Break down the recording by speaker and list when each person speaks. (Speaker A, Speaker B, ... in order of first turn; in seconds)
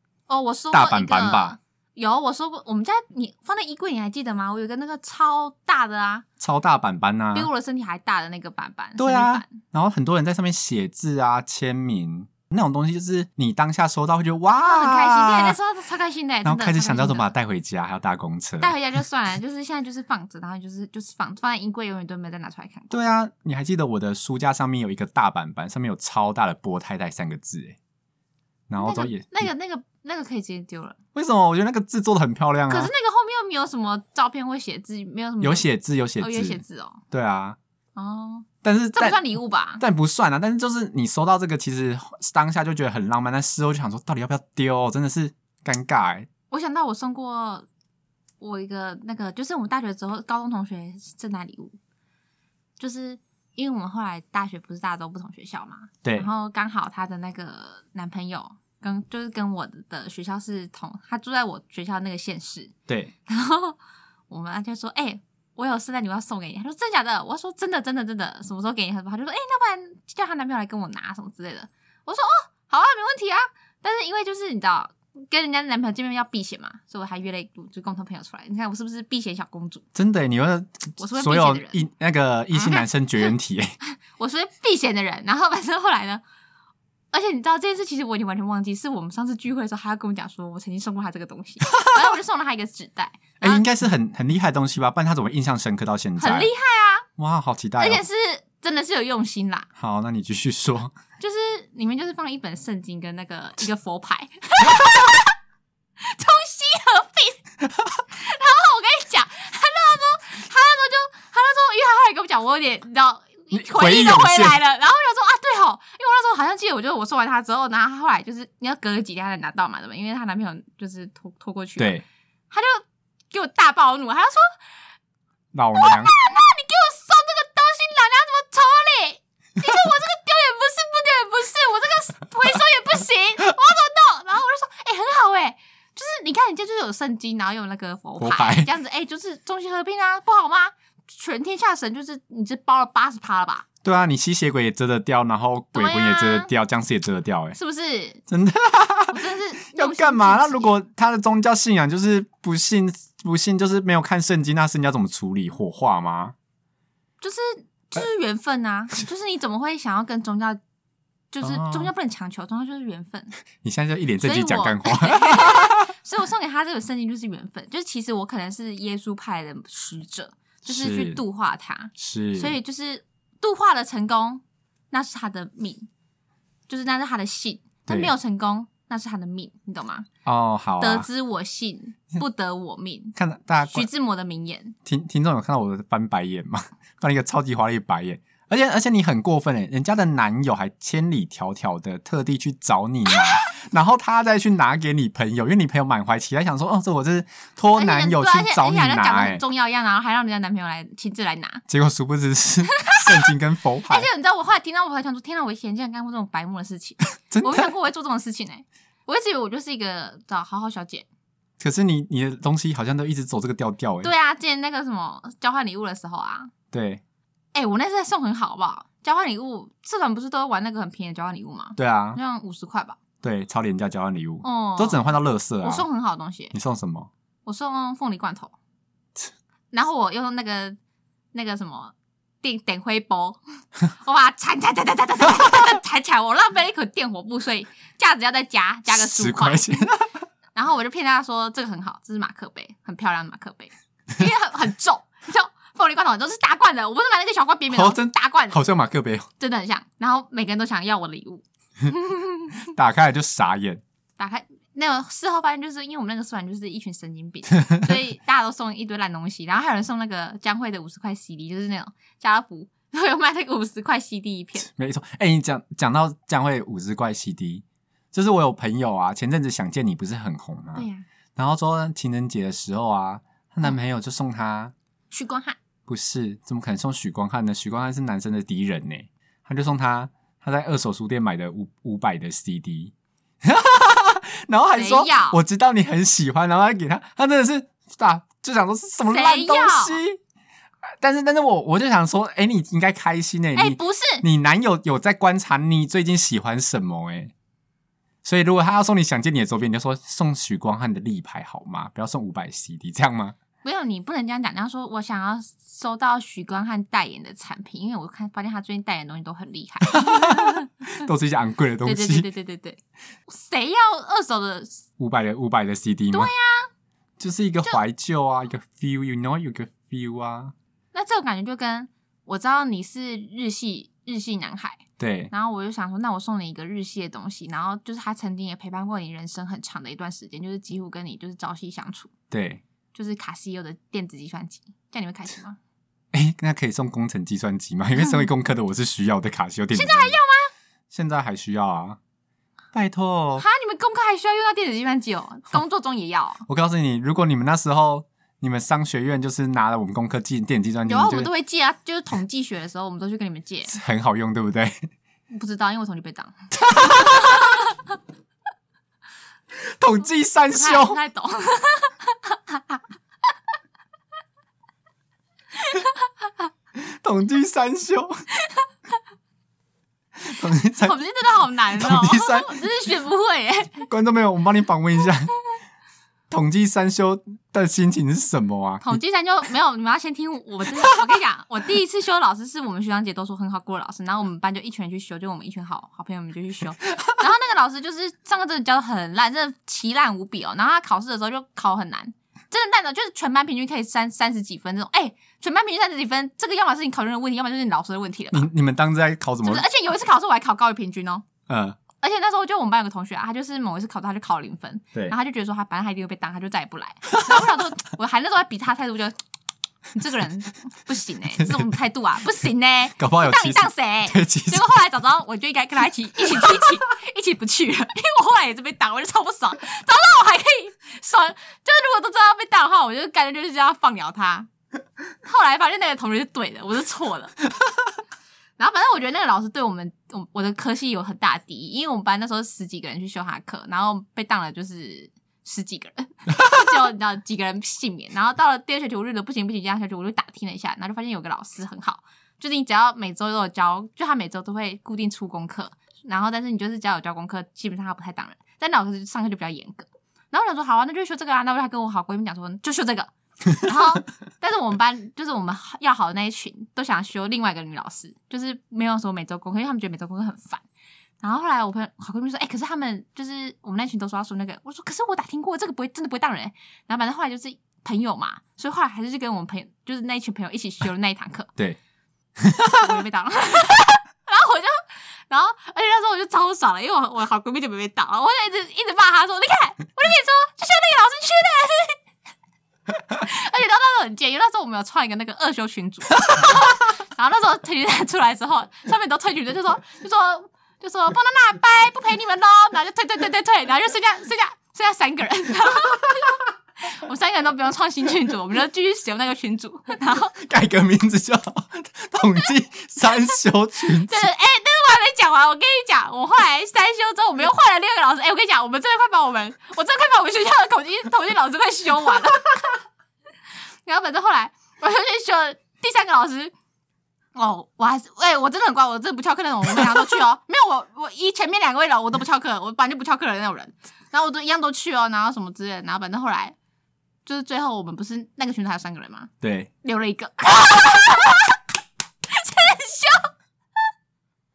Speaker A: 0.3-6.2, 7.3-9.6, 14.6-17.3, 18.6-23.0, 28.8-31.0, 32.7-35.7, 36.2-37.0, 38.0-39.8, 46.5-47.7, 48.4-51.8, 52.8-62.7, 63.3-63.8, 64.3-79.8, 81.0-81.8, 82.5-86.2, 87.1-93.7, 96.2-97.1, 97.8-99.7, 101.2-105.3, 106.0-107.4, 108.1-122.0, 122.5-124.6, 125.8-143.7, 145.8-146.5, 147.6-148.2, 149.1-150.8, 157.2-160.6, 161.3-163.4, 164.2-175.9, 176.7-180.1, 180.8-183.2, 183.7-184.8, 197.8-201.6, 202.8-203.3, 203.9-211.1, 214.0-216.5, 217.5-223.0, 224.4-225.1, 225.6-226.5, 227.5-228.6, 229.7-230.8, 231.3-239.9, 240.6-248.6, 249.4-252.6, 254.2-264.7, 270.8-271.1, 275.1-275.6, 284.8-285.4, 289.1-290.0, 293.6-294.2, 303.6-310.7, 311.8-314.9, 316.1-316.7, 320.9-332.1, 332.9-335.6, 339.7-340.5, 343.4-346.4, 350.9-353.8, 355.3-357.7, 360.5-362.8, 365.6-366.1, 368.4-368.7, 370.8-373.9, 378.8-398.5, 399.4-401.2, 402.0-409.1, 409.9-424.5, 425.2-427.4, 428.6-460.6, 461.2-471.5, 472.8-482.0, 483.1-500.3, 504.0-512.8, 513.9-516.5, 517.4-526.5, 527.3-529.3, 529.8-531.6, 532.3-533.3
Speaker B: 0.7-1.6, 6.4-7.5, 9.0-15.6, 16.4-18.8, 22.9-27.8, 28.7-29.5, 31.1-32.9, 35.4-37.6, 38.6-39.2, 39.8-46.3, 56.0-56.3, 80.0-83.8, 93.4-96.5, 97.2-98.0, 99.8-100.9, 113.5-114.6, 121.8-122.0, 125.5-126.1, 138.2-138.7, 143.8-147.6, 148.3-156.3, 161.4-161.9, 163.6-165.9, 170.7-171.2, 172.0-172.6, 177.9-178.1, 180.2-181.1, 183.2-183.9, 184.8-199.4, 201.7-204.1, 207.3-207.7, 211.6-214.1, 216.7-217.0, 221.8-222.2, 223.2-225.9, 226.5-227.1, 238.9-240.2, 247.7-249.3, 252.7-253.8, 264.6-274.7, 275.9-290.2, 291.0-297.3, 298.2-303.4, 309.9-312.3, 315.0-316.3, 317.2-320.5, 325.0-325.3, 332.3-332.6, 336.1-340.2, 340.9-342.0, 342.7-343.4, 346.5-351.3, 353.7-354.9, 356.6-357.6, 359.5-361.0, 366.8-368.2, 370.2-371.0, 371.8-372.6, 373.9-375.3, 376.3-379.0, 398.3-399.7, 401.5-401.8, 407.1-407.6, 411.4-411.7, 413.0-414.6, 472.4-473.0, 500.3-504.3, 529.4-529.7